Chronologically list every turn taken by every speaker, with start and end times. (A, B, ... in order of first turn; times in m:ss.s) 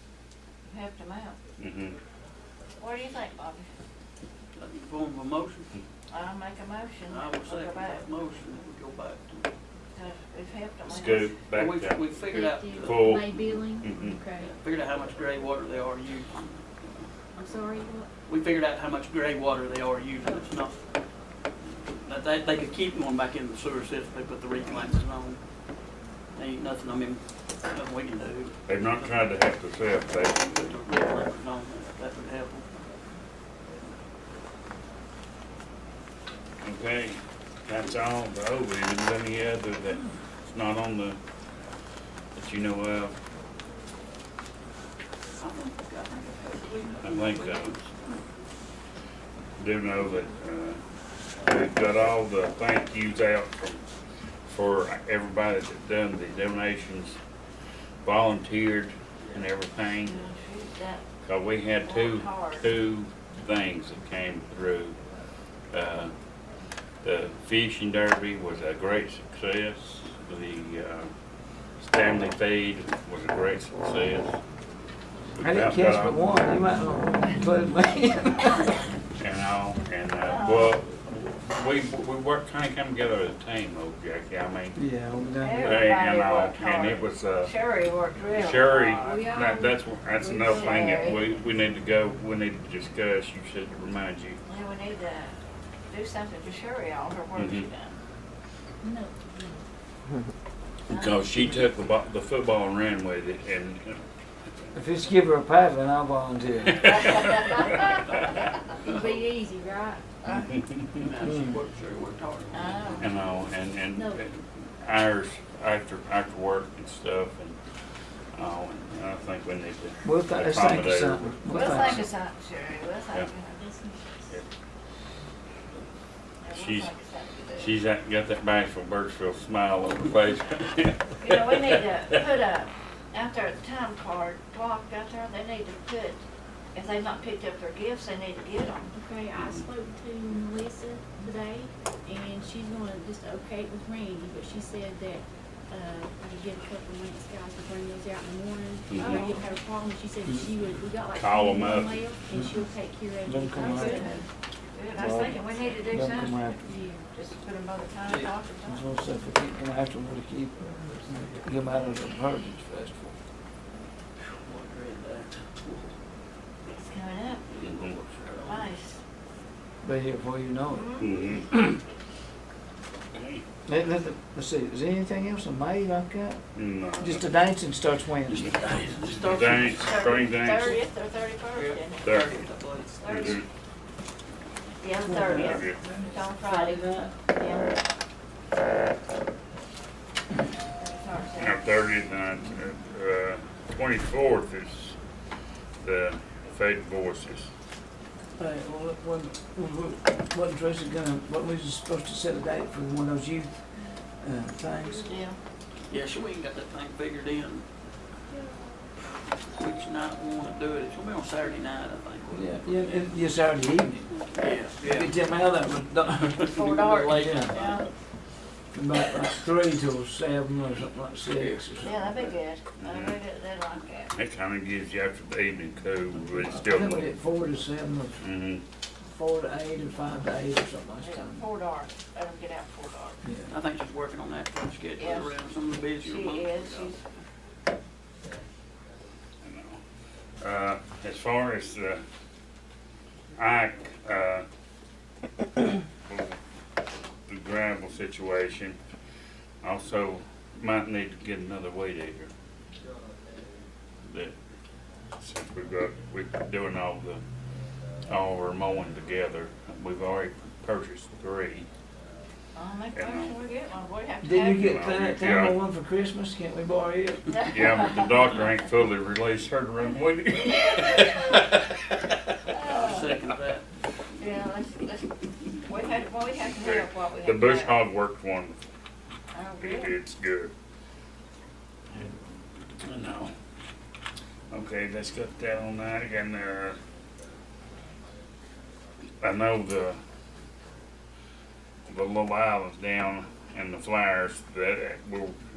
0:00.7-0:01.4 A
0:01.6-0:02.0 B
0:02.8-0:03.6 A
0:04.5-0:05.7 C
0:06.1-0:08.0 A
0:07.1-0:09.5 C
0:09.9-0:11.3 A
0:10.8-0:12.0 B
0:11.5-0:13.3 C
0:12.3-0:14.5 D
0:12.8-0:14.2 B
0:14.4-0:17.1 C
0:17.3-0:18.1 D
0:18.3-0:20.8 C
0:21.9-0:25.4 C
0:26.4-0:29.3 C
0:28.7-0:30.5 B
0:30.2-0:32.7 C
0:36.6-0:41.2 B
0:42.3-0:43.1 B
0:45.4-0:48.2 C
0:47.0-0:47.7 B
0:49.6-0:50.8 B
0:51.4-0:53.8 B
0:54.4-0:57.2 B
0:58.0-1:00.3 B
1:00.0-1:01.0 A
1:01.2-1:05.0 B
1:01.8-1:02.6 A
1:05.7-1:06.1 B
1:07.0-1:11.1 B
1:11.8-1:14.4 B
1:15.3-1:16.5 B
1:15.4-1:18.7 E
1:19.2-1:24.8 B
1:20.2-1:20.7 A
1:24.7-1:26.0 E
1:25.4-1:29.2 A
1:25.6-1:27.5 B
1:28.3-1:34.4 B
1:29.0-1:31.2 D
1:30.4-1:31.2 A
1:34.5-1:35.4 A
1:35.9-1:38.0 A
1:37.4-1:37.7 B
1:38.8-1:39.6 D
1:40.9-1:44.0 B
1:40.9-1:41.2 A
1:44.7-1:47.2 E
1:46.7-1:47.5 B
1:47.0-1:47.4 A
1:47.5-1:47.9 D
1:48.2-1:49.2 C
1:48.8-1:50.1 D
1:50.5-1:50.9 B
1:51.0-1:53.0 C
1:51.2-1:51.5 E
1:52.5-1:53.1 A
1:53.0-1:57.6 B
1:53.9-1:54.2 D
1:58.3-2:02.1 B
2:00.0-2:02.1 E
2:01.5-2:03.6 A
2:03.6-2:04.4 D
2:06.4-2:07.7 A
2:06.5-2:06.9 B
2:07.6-2:12.2 B
2:11.2-2:16.2 A
2:16.7-2:18.9 A
2:18.9-2:34.2 D
2:19.3-2:19.6 B
2:28.9-2:29.3 B
2:29.0-2:29.4 A
2:31.1-2:32.0 B
2:33.2-2:34.2 E
2:33.8-2:34.0 A
2:34.7-2:38.8 A
2:34.9-2:36.6 E
2:36.6-2:37.1 D
2:38.0-2:38.3 C
2:38.6-2:43.2 E
2:44.3-2:45.9 C
2:46.7-2:47.4 A
2:47.4-2:48.7 C
2:47.6-2:48.0 B
2:48.4-2:49.0 A
2:49.8-2:51.0 E
2:50.7-2:51.4 A
2:51.0-2:51.6 B
2:53.1-2:53.4 B
2:53.7-2:56.4 E
2:56.5-2:57.3 B
2:57.0-2:58.6 E
2:58.3-3:00.2 C
2:59.2-3:00.8 B
2:59.7-3:02.3 A
3:01.5-3:03.4 C
3:02.0-3:02.4 B
3:03.0-3:03.4 A
3:03.0-3:03.4 B
3:04.8-3:07.7 A
3:05.0-3:07.2 E
3:05.3-3:05.8 B
3:10.8-3:11.6 A
3:11.4-3:15.0 B
3:15.8-3:17.5 B
3:18.4-3:25.1 E
3:24.7-3:25.2 D
3:25.0-3:25.4 A
3:25.9-3:27.6 C
3:28.3-3:28.9 D
3:29.5-3:32.8 C
3:32.3-3:34.2 E
3:34.4-3:35.1 C
3:34.8-3:36.5 E
3:36.1-3:37.9 C
3:36.4-3:37.9 A
3:37.1-3:37.6 E
3:38.7-3:42.0 E
3:41.4-3:42.3 C
3:41.8-3:44.1 A
3:42.8-3:43.2 B
3:44.1-3:47.1 B
3:46.3-3:48.3 E
3:48.2-3:48.6 B
3:49.1-3:51.4 E
3:51.0-3:53.2 A
3:53.2-3:53.5 E
3:53.5-3:56.9 C
3:55.0-3:55.4 A
3:56.0-3:57.0 A
3:59.4-3:59.8 B
4:00.4-4:02.0 B
4:03.3-4:04.4 B
4:06.1-4:06.4 B
4:07.3-4:08.8 B
4:09.6-4:12.3 B
4:14.0-4:14.3 B
4:15.2-4:17.2 B
4:18.0-4:21.7 B
4:22.5-4:24.8 A
4:22.9-4:23.4 B
4:24.2-4:27.4 E
4:24.5-4:25.6 B
4:27.4-4:28.0 A
4:27.5-4:31.6 B
4:32.5-4:33.1 A
4:32.5-4:33.6 C
4:34.2-4:37.8 A
4:36.6-4:38.6 B
4:39.3-4:39.9 A
4:39.6-4:40.5 B
4:42.8-4:43.3 B
4:44.5-4:46.8 B
4:49.2-4:50.0 B
4:51.9-4:55.4 B